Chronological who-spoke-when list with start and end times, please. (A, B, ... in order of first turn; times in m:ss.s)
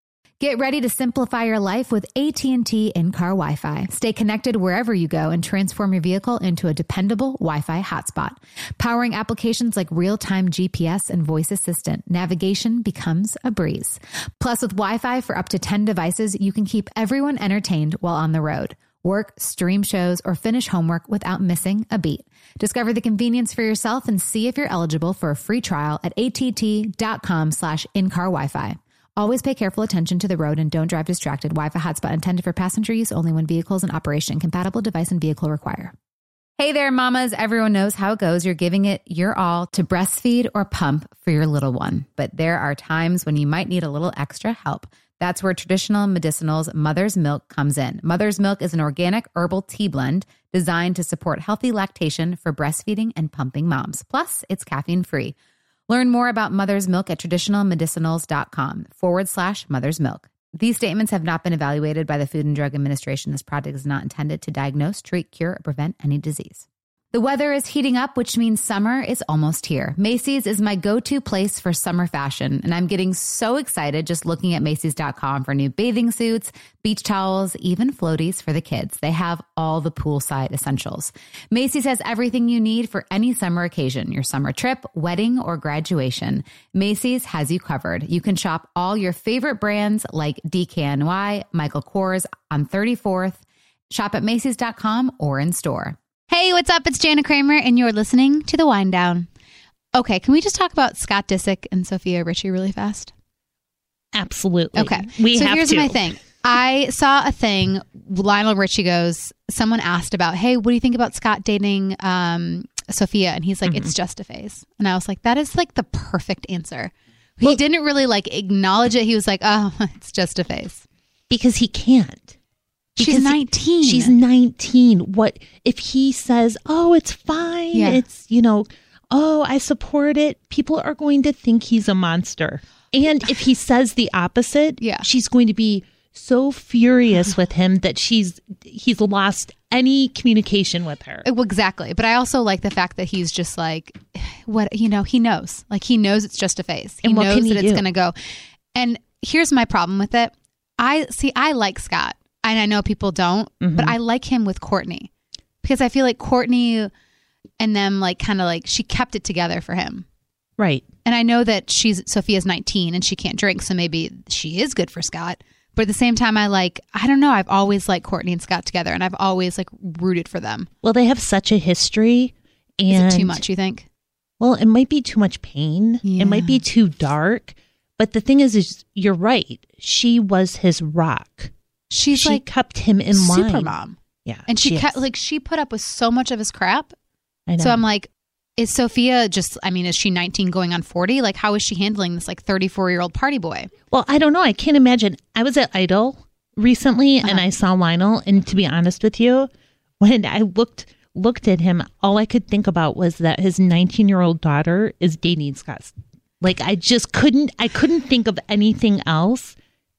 0:00.4-0:35.9 A
0:36.6-0:55.4 A
0:55.9-1:39.3 A
1:39.9-1:43.1 A
1:44.1-1:46.1 B
1:44.7-2:00.8 A
1:53.6-1:53.9 B
2:01.3-2:02.4 B
2:03.0-2:21.2 B
2:03.0-2:04.2 A
2:07.7-2:08.0 A
2:14.8-2:15.0 A
2:21.2-2:28.1 A
2:27.0-2:27.9 B
2:28.7-2:35.1 A
2:33.6-2:34.0 B
2:35.6-2:36.9 A
2:37.6-2:40.0 A
2:40.6-2:40.8 B
2:41.0-2:50.7 A
2:50.8-2:53.4 B
2:52.9-2:53.9 A
2:54.4-3:01.5 B
2:56.0-2:56.6 A
3:01.9-3:02.4 A
3:02.1-3:03.7 B
3:03.1-3:06.9 A
3:04.2-3:05.0 B
3:07.5-3:07.8 B
3:07.6-3:13.7 A
3:13.9-3:19.5 B
3:20.0-3:29.5 B